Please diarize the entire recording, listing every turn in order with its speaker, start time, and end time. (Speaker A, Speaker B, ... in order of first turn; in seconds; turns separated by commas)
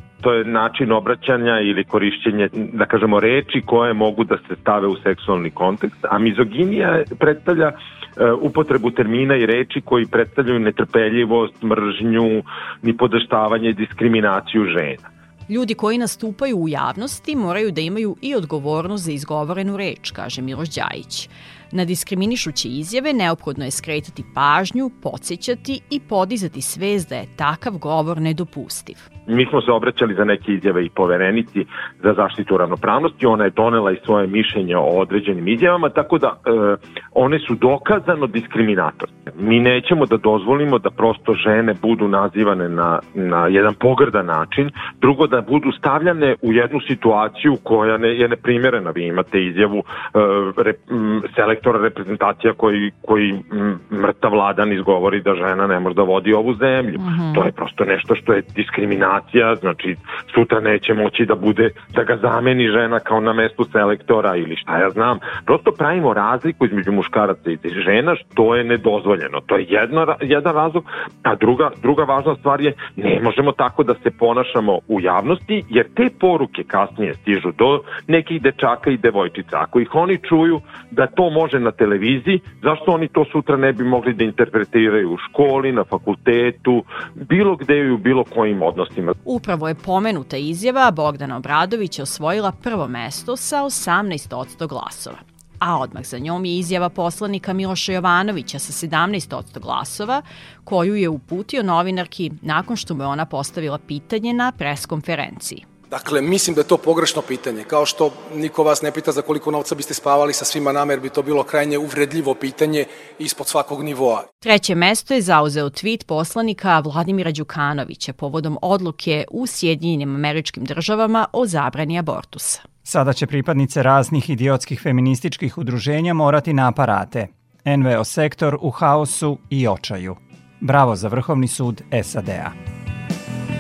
Speaker A: 0.2-15.1, Speaker B: 15.5-29.1, Speaker A: 29.3-89.1, Speaker B: 57.0-57.5, Speaker B: 89.2-105.7, Speaker C: 105.9-114.3, Speaker B: 114.4-122.7, Speaker D: 122.8-132.6